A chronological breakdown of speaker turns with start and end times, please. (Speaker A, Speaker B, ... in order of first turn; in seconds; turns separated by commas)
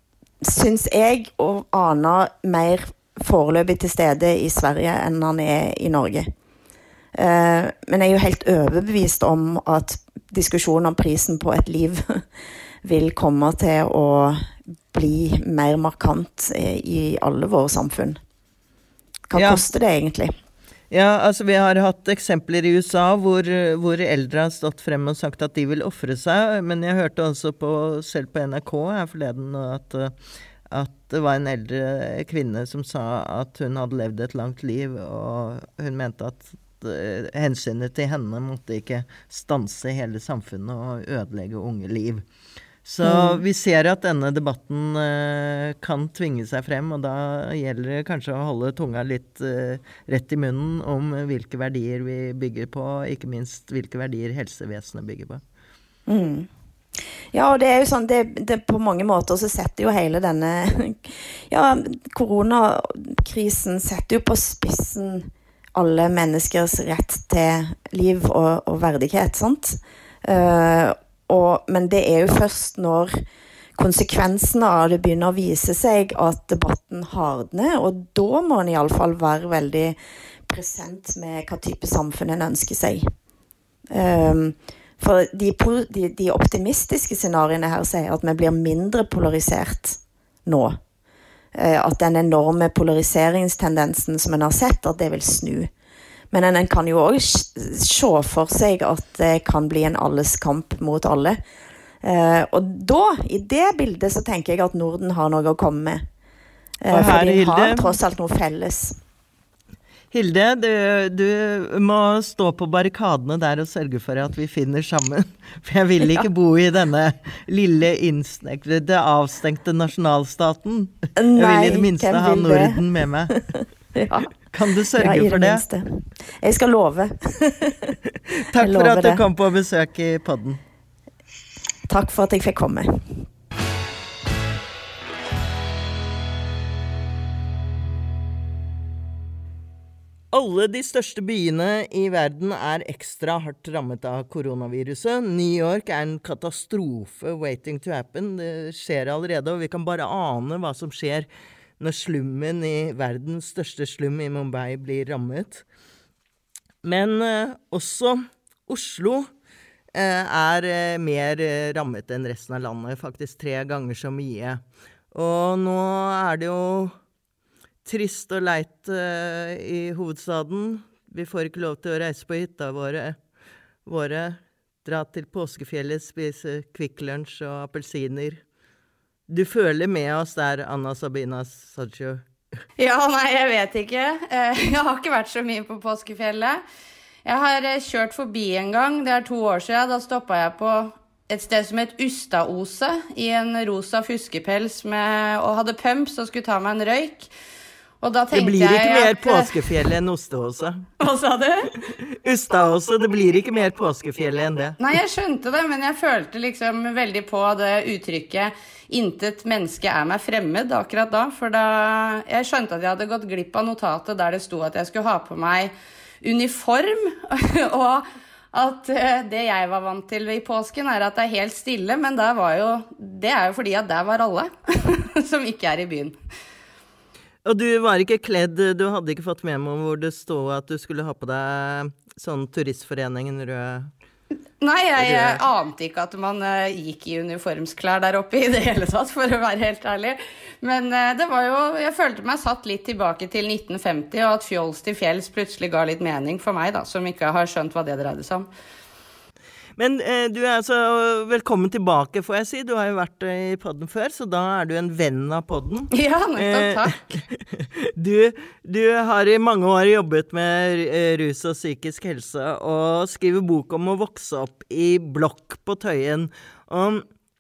Speaker A: 0.4-6.3, Speaker A: 7.2-12.2, Speaker A: 12.8-18.2, Speaker A: 19.3-20.3, Speaker B: 19.4-19.6, Speaker B: 20.9-30.1, Speaker B: 30.7-42.2, Speaker B: 42.9-55.4, Speaker A: 43.0-43.4, Speaker A: 56.1-56.5, Speaker A: 57.3-73.2, Speaker A: 73.8-80.0, Speaker A: 80.5-83.0, Speaker A: 83.9-90.8, Speaker A: 91.5-95.7, Speaker A: 96.3-101.4, Speaker A: 102.0-106.0, Speaker A: 106.8-109.0, Speaker B: 106.9-107.9, Speaker B: 110.1-123.3, Speaker A: 121.2-124.3, Speaker B: 124.5-125.6, Speaker A: 125.0-128.0, Speaker B: 128.4-130.6, Speaker A: 128.6-129.2, Speaker A: 131.9-133.1, Speaker B: 140.3-151.3, Speaker B: 151.8-155.6, Speaker B: 156.8-159.3, Speaker B: 159.9-164.6, Speaker B: 165.1-166.9, Speaker B: 167.8-173.2, Speaker B: 173.9-178.4, Speaker B: 179.3-182.2, Speaker C: 182.8-186.6, Speaker C: 187.2-197.3, Speaker C: 198.0-199.6, Speaker B: 198.3-200.9, Speaker C: 201.0-201.7, Speaker B: 201.9-204.8, Speaker C: 204.8-226.2, Speaker B: 227.4-233.9, Speaker C: 234.6-248.5, Speaker B: 235.0-235.4, Speaker B: 249.8-267.1, Speaker C: 255.9-257.0